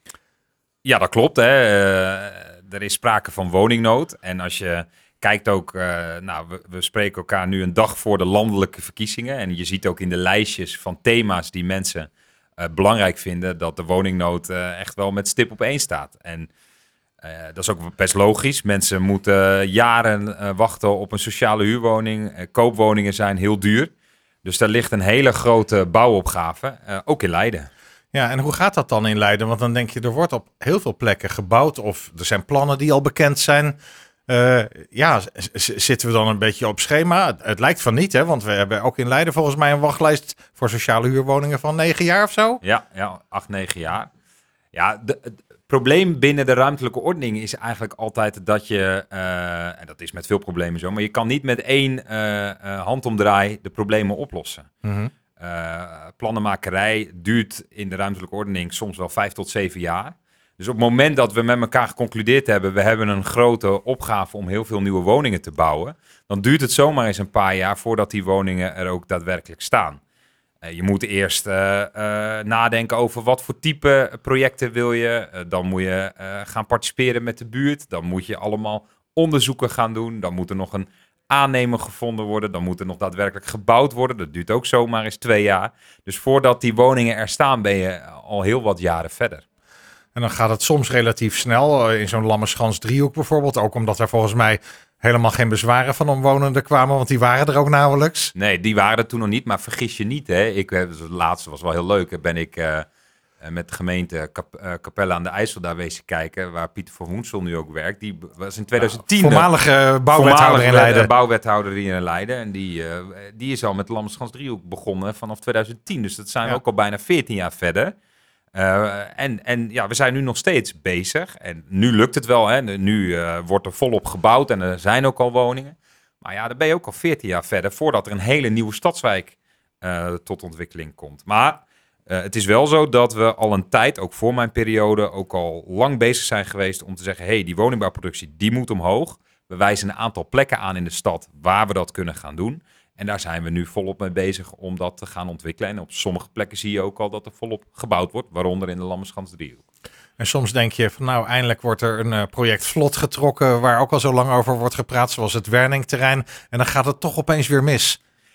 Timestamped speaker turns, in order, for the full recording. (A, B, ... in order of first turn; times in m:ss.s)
0:00.8-0:16.5 A
0:17.2-0:23.9 A
0:24.4-0:27.7 A
0:28.1-0:33.8 B
0:34.3-0:42.6 B
0:42.6-0:44.1 A
0:44.7-0:54.7 A
0:54.8-0:55.1 B
0:55.4-1:10.0 A
1:10.6-1:29.4 A
1:30.2-1:38.3 B
1:38.4-1:42.9 A
1:43.4-1:49.5 A
1:48.8-1:51.1 B
1:50.1-1:57.9 A
1:58.6-2:29.6 A
2:30.2-2:38.0 B